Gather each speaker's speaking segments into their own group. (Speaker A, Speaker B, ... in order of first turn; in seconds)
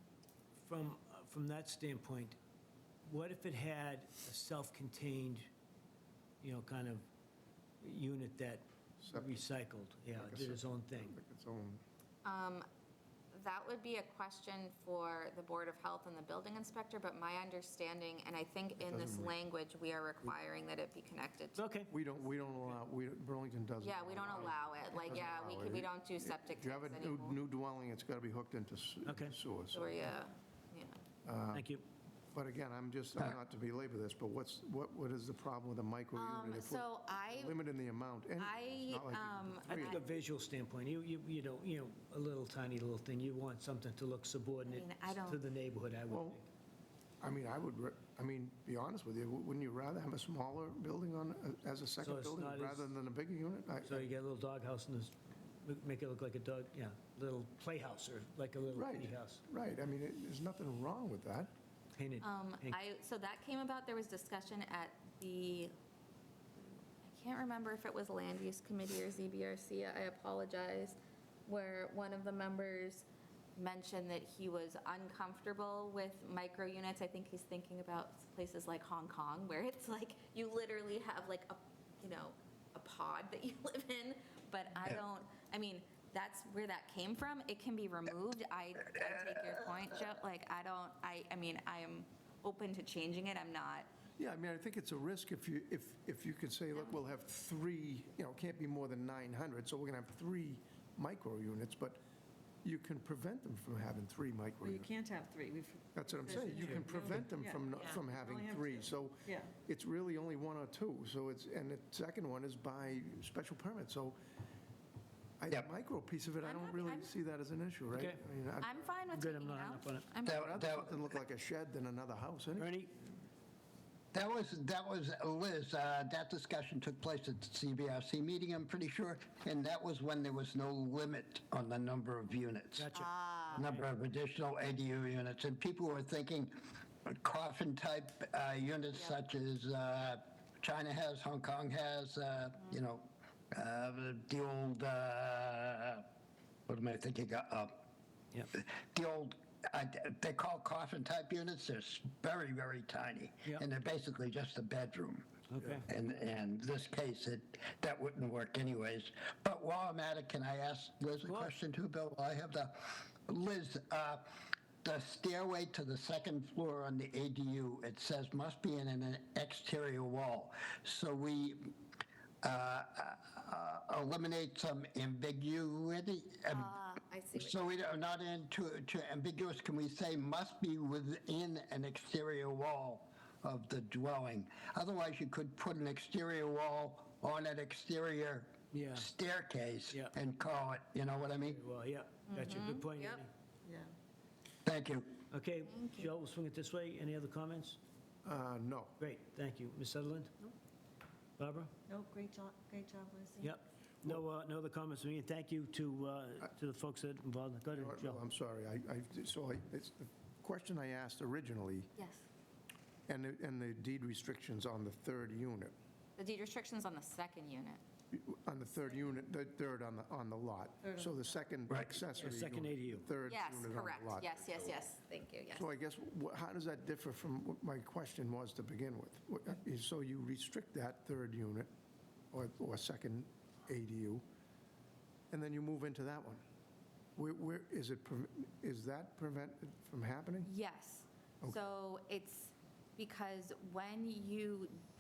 Speaker A: 0.6-2.4, 3.0-5.5, 6.4-7.0, 7.8-11.1, 21.6-21.9, 29.1-29.4, 31.5-31.8, 39.7-46.5, 52.0-52.9, 53.9-59.4, 62.0-62.8, 106.5-106.8, 117.9-118.2, 119.1-120.0, 122.5-122.9, 132.8-133.8, 155.5-155.9, 161.2-161.5, 188.7-189.1, 191.4-193.3, 195.3-197.8, 199.0-200.5, 201.4-201.7, 203.4-208.2, 222.2-223.1
Speaker B: 9.1-9.4, 10.1-11.8, 18.8-19.4, 21.9-30.1, 31.2-31.7, 32.3-40.0, 46.1-46.4, 47.2-54.1, 58.7-61.5, 94.2-102.0, 102.6-104.9, 105.9-114.2, 115.4-118.8, 120.2-122.8, 198.2-199.0, 207.7-211.9, 213.1-215.7, 218.1-224.8, 225.5-231.7, 232.3-234.2, 235.3-236.4, 237.2-240.5, 241.4-241.7
Speaker C: 12.2-12.7, 13.3-21.6, 23.8-27.4, 29.7-31.0, 36.1-37.6, 38.4-40.1, 44.7-45.4, 62.2-65.7, 67.0-93.9, 116.4-117.1, 118.6-120.5, 132.9-133.7, 176.5-177.7, 192.3-193.2, 195.6-196.1, 212.0-212.3, 216.2-217.8, 223.2-225.7, 240.4-244.8
Speaker D: 104.6-109.5, 193.7-193.9, 201.9-203.5, 218.8-219.2, 220.8-221.4
Speaker E: 120.2-121.0, 124.1-132.9, 133.5-136.5, 137.1-146.1, 146.7-147.8, 148.5-155.3, 155.9-171.7, 172.4-176.8, 177.4-191.6, 194.7-195.2, 221.7-222.0